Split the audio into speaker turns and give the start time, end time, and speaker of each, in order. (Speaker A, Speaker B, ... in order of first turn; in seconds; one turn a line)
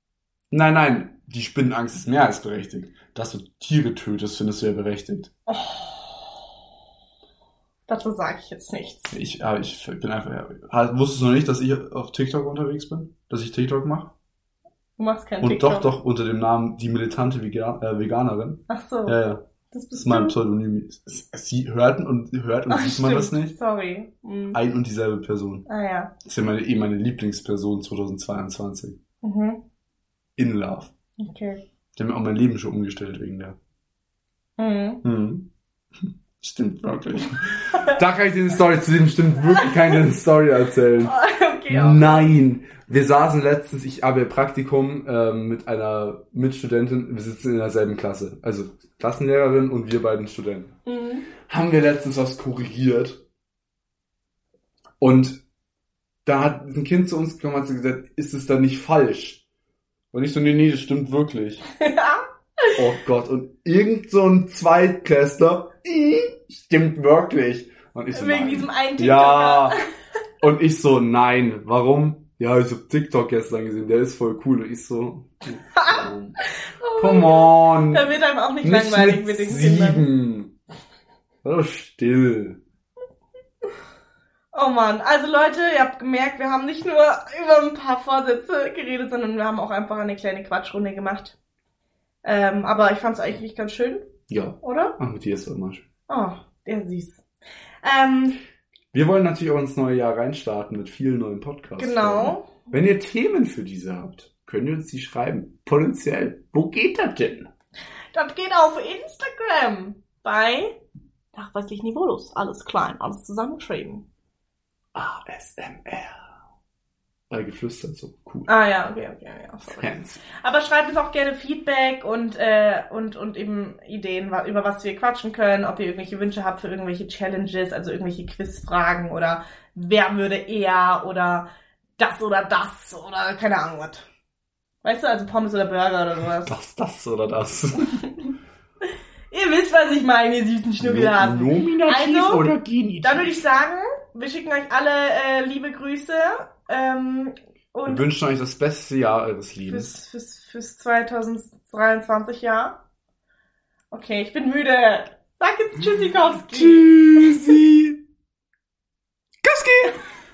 Speaker A: 0.5-5.3
Speaker B: 5.5-6.1
Speaker B: 7.9-9.2
Speaker A: 9.1-14.1
Speaker B: 15.0-15.9
Speaker A: 15.4-19.4
Speaker B: 18.7-19.2
Speaker B: 19.7-20.4
Speaker A: 19.9-23.6
Speaker B: 22.7-24.6
Speaker A: 24.5-25.6
Speaker B: 25.7-26.1
Speaker A: 26.2-29.0
Speaker B: 29.2-29.6
Speaker A: 30.4-30.9
Speaker B: 31.2-31.6
Speaker A: 32.0-33.6
Speaker B: 34.6-35.0
Speaker A: 35.0-35.5
Speaker A: 36.4-41.1
Speaker B: 37.7-38.0
Speaker B: 41.0-42.3
Speaker A: 41.7-50.8
Speaker B: 50.9-51.3
Speaker A: 51.5-53.2
Speaker A: 55.0-55.4
Speaker A: 56.3-59.4
Speaker A: 60.1-61.6
Speaker B: 61.8-62.8
Speaker A: 62.8-69.8
Speaker B: 68.1-69.8
Speaker A: 70.4-76.4
Speaker B: 75.7-80.1
Speaker A: 77.0-80.5
Speaker A: 81.4-82.6
Speaker B: 84.5-91.4
Speaker B: 92.2-95.0
Speaker A: 94.3-95.9
Speaker B: 96.1-97.2
Speaker B: 97.8-98.4
Speaker A: 98.9-107.5
Speaker B: 101.8-102.7
Speaker B: 108.1-110.8
Speaker B: 111.3-114.0
Speaker A: 115.0-116.3
Speaker A: 117.3-118.5
Speaker B: 118.5-134.1
Speaker A: 119.7-120.2
Speaker B: 134.8-136.5
Speaker A: 136.4-137.9
Speaker B: 137.8-138.3
Speaker B: 139.3-142.5
Speaker A: 140.8-143.4
Speaker B: 143.0-148.0
Speaker A: 147.9-150.0
Speaker B: 149.7-152.8
Speaker B: 153.9-157.6
Speaker A: 156.4-158.0
Speaker A: 159.4-160.0